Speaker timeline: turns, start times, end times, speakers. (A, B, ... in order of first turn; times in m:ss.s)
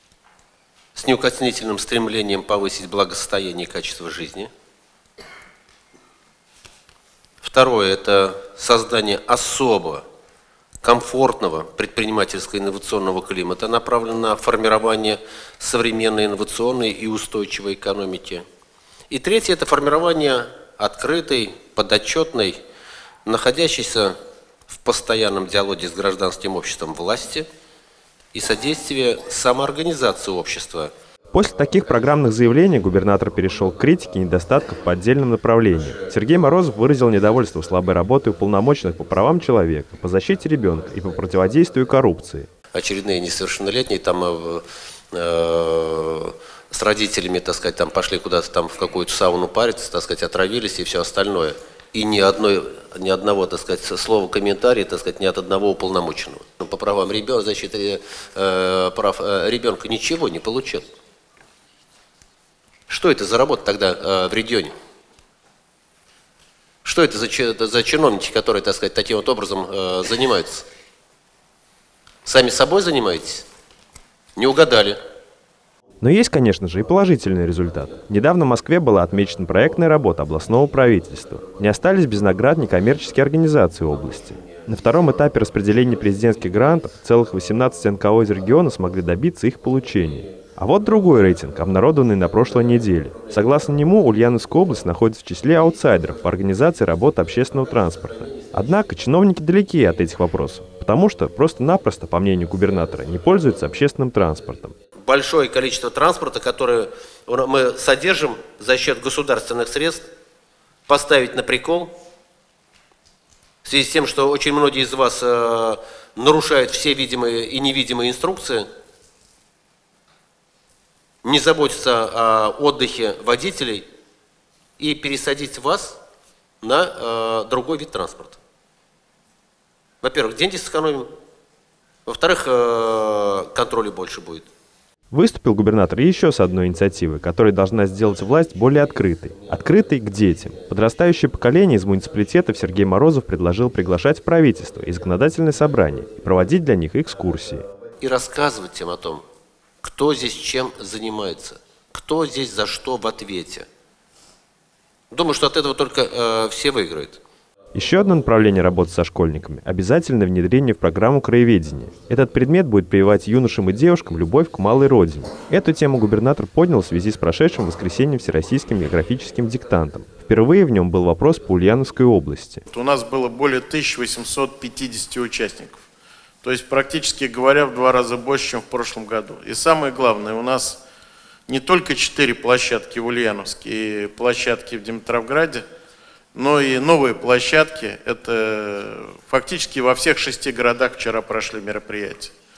0:01.0-0:04.5 A
0:07.4-0:10.0 A
0:10.8-0:18.4 A
0:19.1-0:22.6 A
0:23.2-0:24.2 A
0:24.7-0:27.5 A
0:28.3-0:30.9 A
0:31.3-0:42.5 B
0:42.7-1:00.8 A
1:02.9-1:04.7 A
1:06.8-1:10.7 A
1:12.2-1:13.5 A
1:14.4-1:15.0 A
1:16.0-1:44.7 B
1:45.0-1:50.1 A
1:50.9-1:51.9 A
1:53.6-1:58.7 A
2:01.2-2:03.9 A
2:04.8-2:06.0 A
2:06.6-2:08.4 A
2:10.0-2:11.1 A
2:12.1-2:14.5 A
2:15.1-2:27.6 B
2:28.0-2:29.2 A
2:29.8-2:33.7 A
2:35.1-2:37.2 A
2:37.7-2:52.6 B
2:52.7-2:55.8 C
2:56.4-3:00.8 C
3:01.5-3:05.6 C
3:06.3-3:12.3 C